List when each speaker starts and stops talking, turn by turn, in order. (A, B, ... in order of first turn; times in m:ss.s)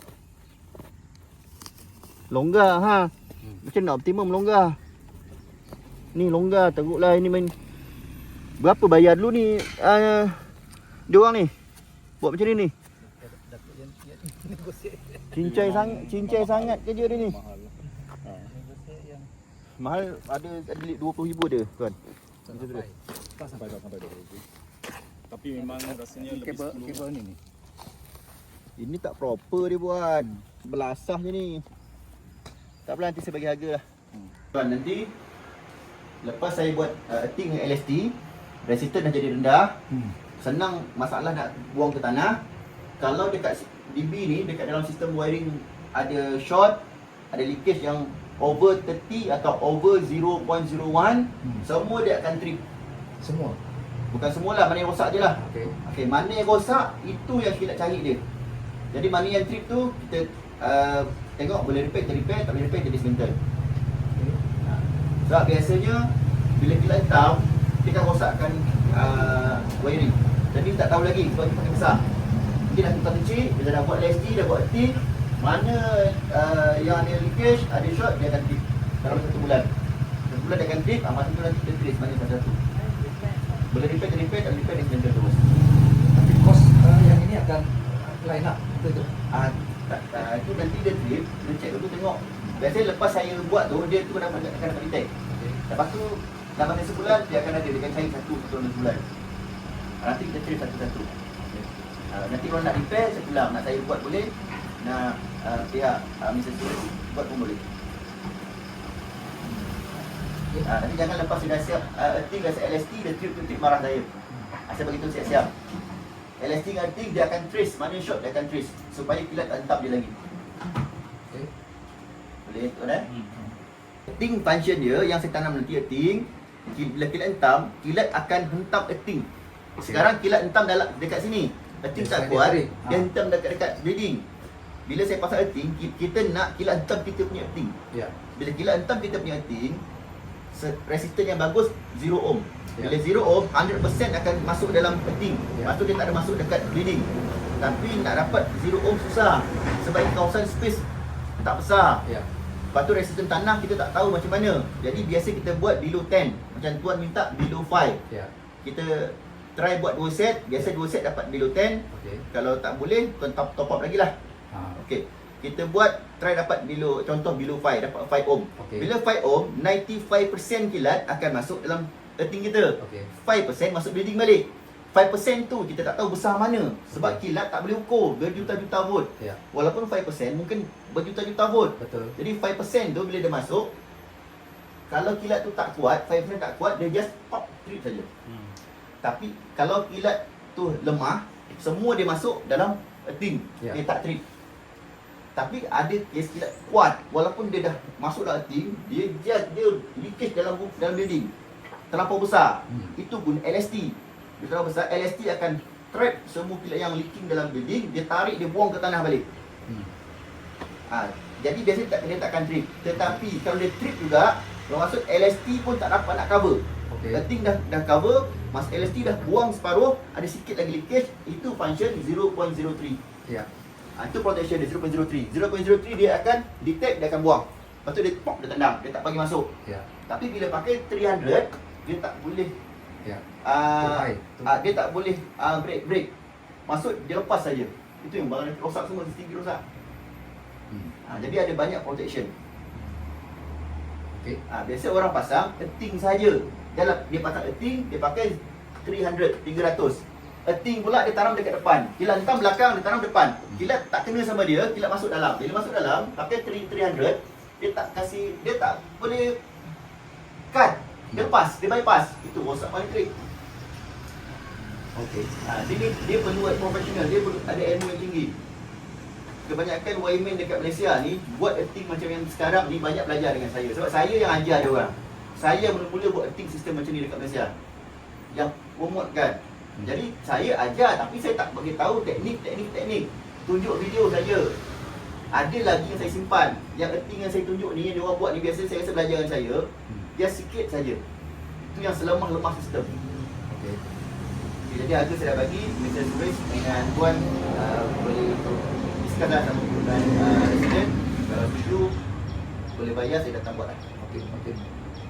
0:02.3-0:04.8 A
0:06.1-0:07.5 A
0:08.6-0:10.5 A
0:11.1-0:11.5 A
0:12.2-0:12.7 A
0:13.0-0:15.4 B
0:15.3-0:17.4 A
0:15.4-0:18.5 C
0:18.4-0:19.3 B
0:19.8-0:22.0 A
0:22.5-0:23.8 B
0:22.5-0:22.8 A
0:23.5-0:24.4 C
0:25.3-0:27.0 C
0:25.6-0:27.4 B
0:28.8-0:31.6 A
0:32.9-0:33.8 A
0:34.5-0:35.1 A
0:36.2-0:39.8 A
0:39.9-0:40.2 B
0:40.4-0:42.4 A
0:43.0-0:52.6 A
0:53.2-0:53.6 B
0:54.1-0:58.2 A
0:55.4-0:55.8 B
0:58.9-1:03.4 A
1:04.1-1:04.4 B
1:04.6-1:12.0 A
1:12.7-1:19.7 A
1:20.3-1:22.6 A
1:22.8-1:23.6 B
1:23.7-1:25.4 A
1:26.1-1:29.1 B
1:29.3-1:35.1 A
1:35.3-1:35.6 B
1:35.7-1:39.0 A
1:40.0-1:47.6 A
1:49.4-1:49.7 B
1:50.6-1:54.1 A
1:54.7-1:55.5 A
1:56.4-2:00.2 A
2:02.4-2:03.1 A
2:03.1-2:03.5 C
2:04.1-2:09.3 A
2:09.8-2:14.3 A
2:11.9-2:13.1 B
2:14.9-2:17.8 A
2:18.4-2:19.8 A
2:20.5-2:30.9 A
2:31.4-2:32.0 A
2:32.7-2:38.0 A
2:38.6-2:44.1 A
2:41.9-2:42.3 B
2:44.5-2:44.8 B
2:44.8-3:03.7 A
2:48.6-2:48.9 B
2:52.8-2:53.1 B
2:56.9-2:57.2 B
3:01.8-3:02.2 B
3:04.9-3:08.1 A
3:08.3-3:08.6 C
3:09.0-3:14.2 A
3:15.4-3:21.3 A
3:21.9-3:29.3 A
3:22.7-3:23.0 B
3:29.7-3:29.9 B
3:30.9-3:43.0 A
3:36.9-3:37.2 B
3:44.0-3:49.5 A
3:50.1-3:52.6 A
3:53.4-3:56.1 A
3:53.8-3:54.5 B
3:56.7-3:59.6 A
4:00.7-4:01.0 B
4:01.0-4:02.3 A
4:04.1-4:04.4 B
4:04.5-4:19.4 A
4:20.5-4:23.1 A
4:24.9-4:25.3 B
4:25.4-4:28.4 A
4:29.4-4:37.5 A
4:38.3-4:44.6 A
4:45.3-4:51.0 A
4:51.6-4:53.0 A
4:53.5-4:53.8 B
4:54.7-5:02.0 A
5:02.7-5:03.8 A
5:04.0-5:04.7 B